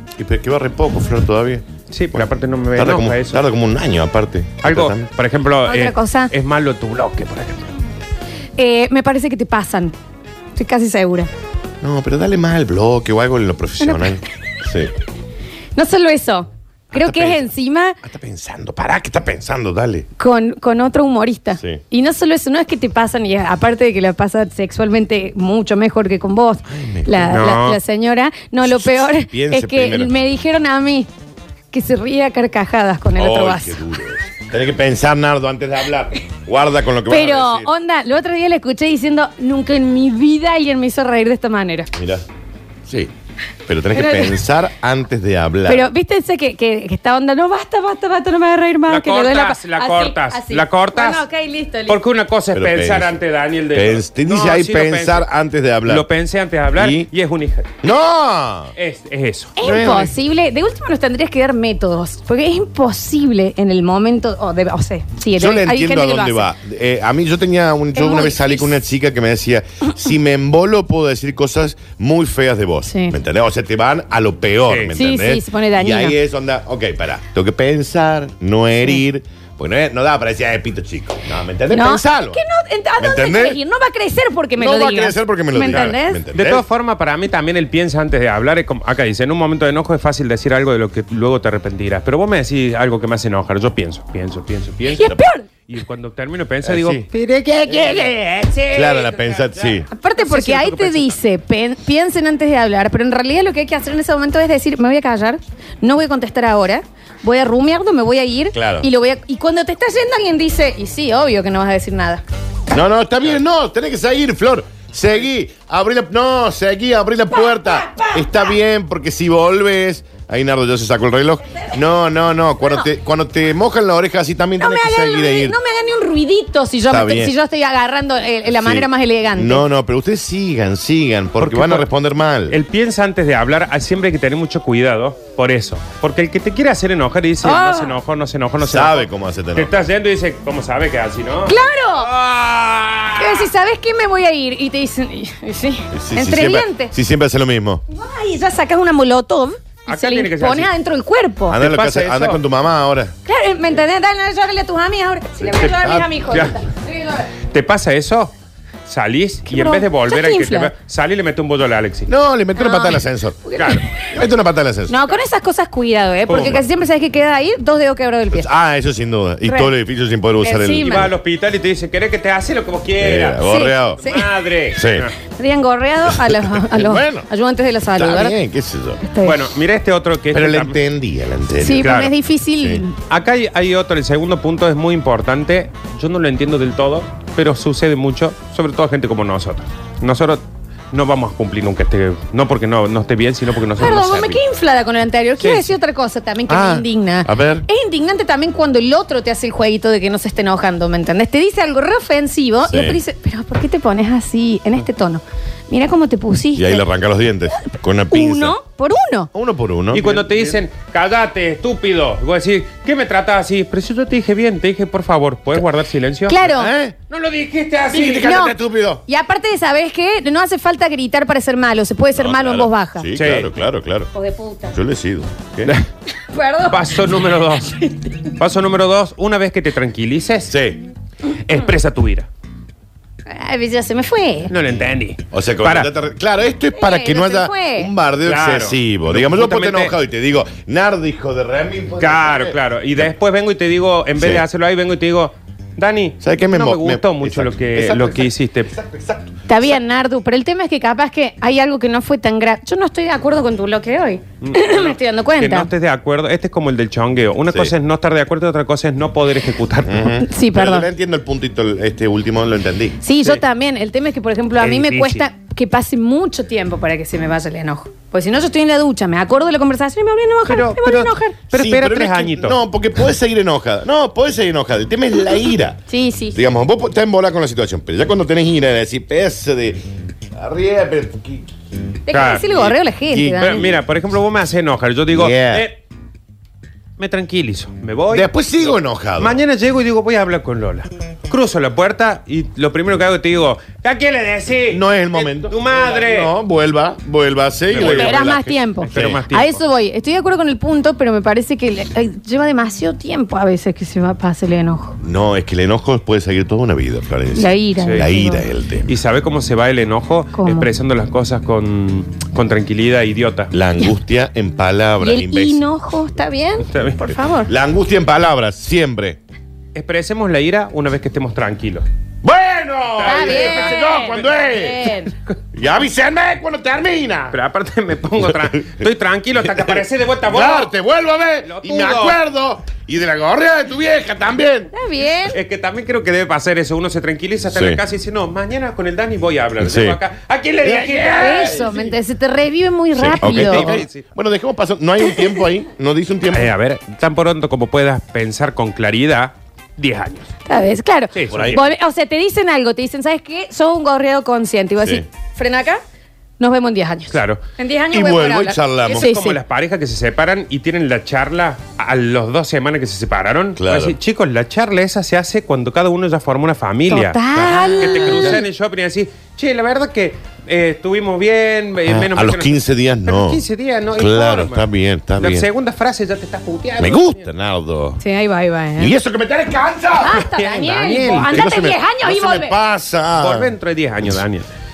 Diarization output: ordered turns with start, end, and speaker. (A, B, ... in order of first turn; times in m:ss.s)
0:00.2-0:05.1 A
0:01.9-0:03.4 B
0:04.6-0:07.7 B
0:05.7-0:06.3 C
0:08.6-0:10.0 C
0:10.6-0:11.3 C
0:11.8-0:14.9 A
0:13.8-0:14.2 C
0:15.8-0:18.0 C
0:16.9-0:17.5 A
0:18.0-0:20.1 A
0:20.2-0:31.1 C
0:26.7-0:27.4 A
0:27.3-0:27.8 B
0:28.6-0:30.2 A
0:31.7-0:33.8 C
0:33.2-0:37.7 A
0:37.1-0:41.9 C
0:42.0-0:42.2 A
0:42.9-0:43.1 A
0:43.7-0:45.9 A
0:43.9-0:44.4 C
0:45.7-0:52.0 C
0:48.9-0:51.2 B
0:51.9-0:55.3 B
0:52.5-0:53.2 A
0:53.7-0:56.1 A
0:55.8-0:57.7 B
0:56.7-0:57.1 A
0:57.8-0:58.7 A
0:58.8-0:59.6 B
0:59.6-1:06.5 C
0:59.6-1:00.1 A
1:05.4-1:22.4 A
1:08.0-1:08.8 C
1:12.9-1:13.2 C
1:14.9-1:16.2 C
1:21.7-1:26.2 C
1:23.0-1:23.6 A
1:24.6-1:26.6 A
1:25.7-1:35.2 B
1:34.9-1:35.5 C
1:35.7-1:37.2 B
1:36.6-1:37.1 A
1:37.1-1:38.5 C
1:37.7-1:41.2 B
1:38.7-1:39.9 A
1:39.9-1:52.2 C
1:48.5-1:48.9 A
1:52.7-2:05.6 A
1:57.3-1:58.5 C
2:04.6-2:09.6 C
2:06.9-2:07.4 A
2:08.5-2:12.6 A
2:11.4-2:11.9 B
2:12.5-2:23.5 B
2:17.4-2:17.9 C
2:18.6-2:19.7 A
2:21.5-2:22.1 C
2:23.2-2:26.9 C
2:25.9-2:27.8 A
2:27.9-2:31.6 C
2:29.9-2:30.7 B
2:31.5-2:33.1 A
2:31.5-2:32.4 B
2:33.3-2:37.3 C
2:35.4-2:36.4 A
2:37.5-2:38.3 B
2:38.9-2:42.1 B
2:39.5-2:40.7 C
2:42.1-2:45.0 A
2:42.6-2:44.0 C
2:44.9-2:48.5 C
2:46.3-2:46.6 B
2:48.3-2:51.1 A
2:49.4-2:49.7 C
2:50.4-2:51.1 C
2:50.8-2:53.4 B
2:53.0-2:54.0 A
2:53.4-2:54.3 C
2:54.0-2:55.2 B
2:54.7-2:55.1 A
2:55.3-2:58.4 C
2:56.1-2:57.3 A
2:58.0-2:59.0 A
2:59.0-2:59.4 C
2:59.2-3:00.8 B
3:00.3-3:02.0 A
3:01.6-3:03.0 C
3:01.8-3:02.1 B
3:02.6-3:02.8 A
3:03.1-3:14.4 B
3:13.8-3:26.8 C
3:15.4-3:15.7 B
3:16.5-3:17.7 A
3:22.7-3:23.0 A
3:26.6-3:28.6 A
3:27.6-3:29.3 C
3:29.3-3:30.3 A
3:29.9-3:36.4 B
3:36.3-3:36.7 C
3:36.4-3:37.0 A
3:37.1-3:38.3 B
3:37.9-3:39.0 A
3:38.2-3:43.1 C
3:42.2-3:44.1 A
3:43.2-3:43.5 B
3:44.1-3:44.8 C
3:44.7-3:45.7 A
3:46.3-3:46.9 C
3:46.7-3:47.8 B
3:47.8-3:48.2 C
3:48.4-3:50.5 B
3:50.5-3:50.8 A
3:51.4-3:52.3 B
3:53.3-3:54.5 C
3:54.5-3:55.9 B
3:55.3-4:02.6 A
3:56.7-3:57.9 C
3:58.2-3:59.9 B
4:02.0-4:08.7 B
4:04.2-4:04.4 A
4:06.2-4:09.7 A
4:09.5-4:15.7 C
4:14.4-4:20.2 B
4:19.8-4:23.0 A
4:20.2-4:20.9 C
4:23.0-4:31.4 C
4:24.6-4:25.2 B
4:30.5-4:32.6 B
4:31.5-4:35.8 A
4:35.9-4:36.4 C
4:36.3-4:39.8 A
4:40.4-4:41.5 A
4:42.1-4:43.6 C
4:42.1-4:42.4 B
4:42.4-4:43.8 A
4:43.4-4:45.8 B
4:45.1-4:45.7 A
4:47.0-4:56.3 B
4:48.1-4:49.4 A
4:54.7-4:59.2 A
4:57.7-4:59.6 B
4:57.8-5:05.0 C
5:05.0-5:08.9 A
5:07.4-5:08.4 C
5:07.8-5:08.1 B
5:08.9-5:13.5 B
5:10.3-5:10.7 C
5:13.5-5:15.6 A
5:15.0-5:17.5 C
5:16.7-5:17.1 B
5:17.5-5:19.2 A
5:19.8-5:21.8 B
5:22.2-5:24.9 A
5:23.0-5:24.3 B
5:23.1-5:25.1 C
5:25.5-5:27.4 A
5:27.3-5:30.7 B
5:28.2-5:28.8 A
5:29.4-5:34.7 A
5:31.4-5:32.2 B
5:34.7-5:35.4 C
5:35.3-5:41.7 B
5:37.5-5:37.8 A
5:39.6-5:40.0 A
5:40.6-5:41.9 A
5:41.1-5:43.7 C
5:43.0-5:46.5 A
5:43.2-5:44.0 B
5:46.3-5:50.3 B
5:50.5-5:55.8 C
5:51.2-5:51.6 B
5:51.3-5:51.6 A
5:54.8-5:55.0 A
5:56.4-5:59.4 C
5:57.1-5:57.4 B
5:57.9-5:59.1 A
5:58.9-6:14.7 B
6:03.6-6:04.0 A
6:06.9-6:08.4 C
6:07.8-6:08.4 A
6:11.9-6:13.4 A
6:13.9-6:15.5 A
6:15.2-6:17.2 B
6:16.8-6:18.0 A
6:18.0-6:18.9 C
6:18.8-6:20.3 A
6:20.0-6:22.6 C
6:20.2-6:21.5 B
6:21.2-6:23.5 A
6:23.2-6:24.5 B